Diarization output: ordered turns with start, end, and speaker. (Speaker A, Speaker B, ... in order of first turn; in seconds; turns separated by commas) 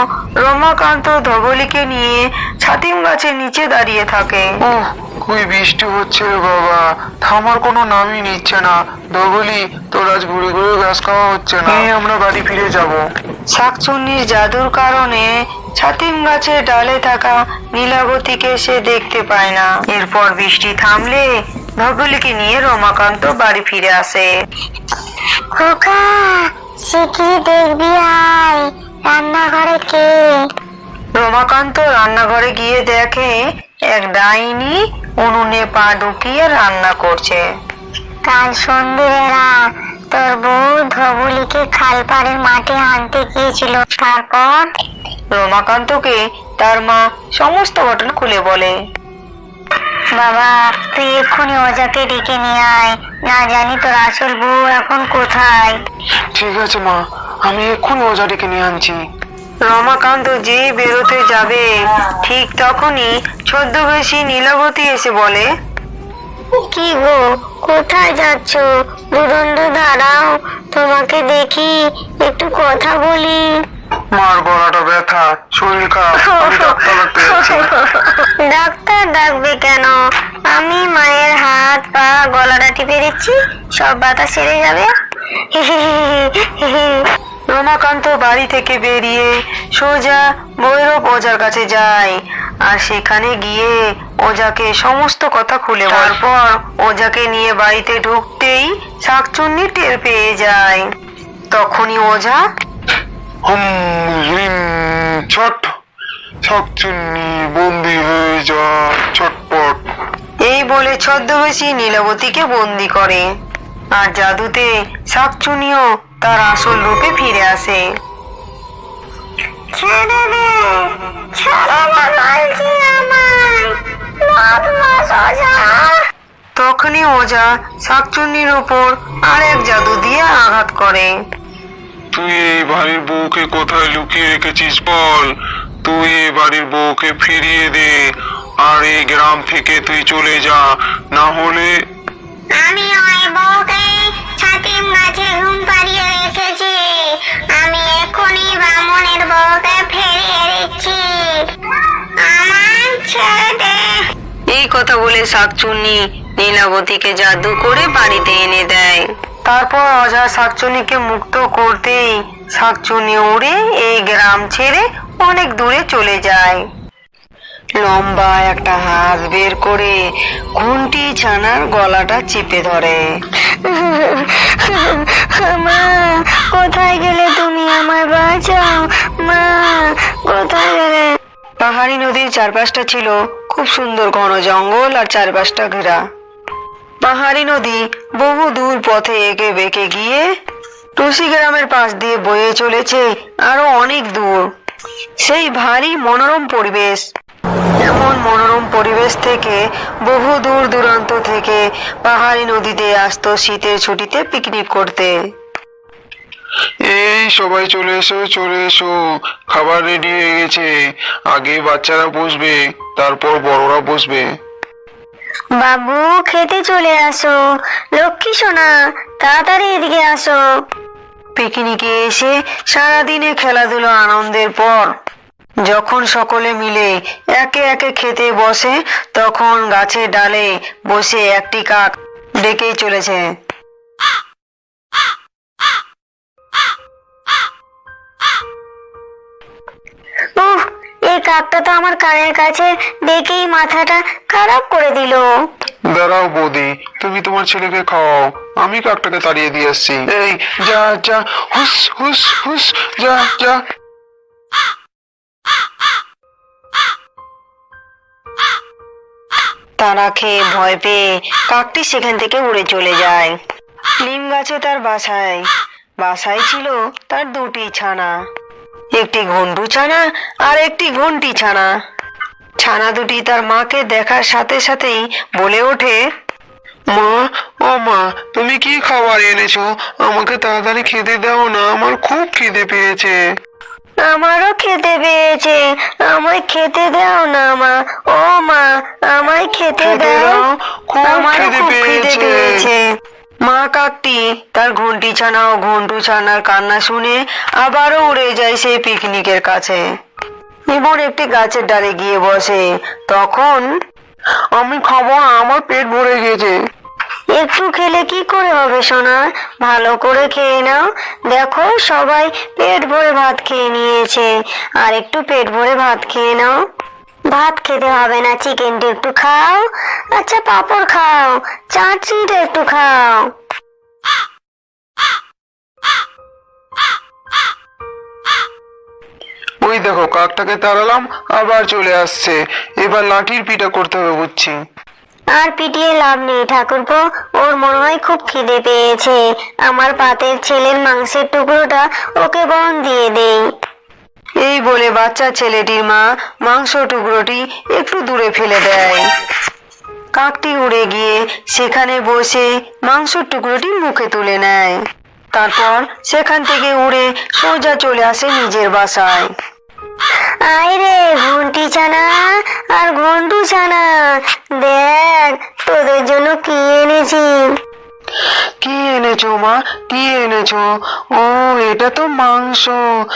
Speaker A: 0.4-4.5, Speaker B: 4.6-13.0, Speaker A: 13.5-21.3, Speaker A: 21.8-24.3, Speaker C: 25.6-30.2, Speaker A: 31.2-33.4, Speaker A: 33.9-37.4, Speaker C: 38.3-39.5, Speaker C: 40.1-44.7, Speaker A: 45.3-48.7, Speaker C: 50.1-55.8, Speaker B: 56.3-59.0, Speaker A: 59.6-65.5, Speaker C: 66.5-73.5, Speaker B: 74.2-77.7, Speaker C: 76.2-80.0, Speaker C: 80.5-84.9, Speaker C: 85.5-87.0, Speaker A: 87.5-100.8, Speaker A: 101.5-102.4, Speaker B: 103.5-105.7, Speaker B: 106.4-109.8, Speaker A: 110.5-113.2, Speaker A: 113.9-117.8, Speaker C: 119.7-126.0, Speaker A: 126.6-131.1, Speaker B: 132.1-138.0, Speaker B: 138.6-141.8, Speaker C: 142.5-151.4, Speaker C: 152.2-154.0, Speaker A: 154.5-166.6, Speaker A: 167.8-170.0, Speaker A: 170.6-173.0, Speaker C: 173.5-181.1, Speaker A: 181.6-186.0, Speaker A: 187.0-190.2, Speaker A: 191.0-194.4, Speaker A: 195.2-197.0, Speaker A: 197.8-205.2, Speaker B: 206.8-210.7, Speaker B: 211.3-214.3, Speaker C: 215.6-217.4, Speaker C: 217.9-220.4, Speaker A: 221.4-224.9, Speaker A: 225.6-233.2, Speaker C: 240.4-245.2, Speaker B: 245.9-253.6, Speaker A: 259.8-263.4, Speaker A: 264.0-265.5, Speaker A: 266.0-268.1, Speaker A: 268.9-271.7, Speaker A: 272.6-276.0, Speaker B: 276.9-283.2, Speaker C: 284.0-290.3, Speaker B: 289.8-292.7, Speaker A: 289.8-290.3, Speaker A: 291.0-292.8, Speaker A: 293.4-299.8, Speaker A: 300.7-303.6, Speaker B: 304.6-306.5, Speaker C: 307.4-310.8, Speaker C: 311.3-314.2, Speaker A: 314.8-316.5, Speaker C: 317.3-323.3, Speaker B: 329.6-334.6, Speaker C: 335.3-343.4, Speaker A: 344.4-349.0, Speaker A: 350.1-354.8, Speaker A: 355.3-359.3, Speaker C: 360.4-367.4, Speaker B: 368.6-370.6, Speaker A: 371.2-372.8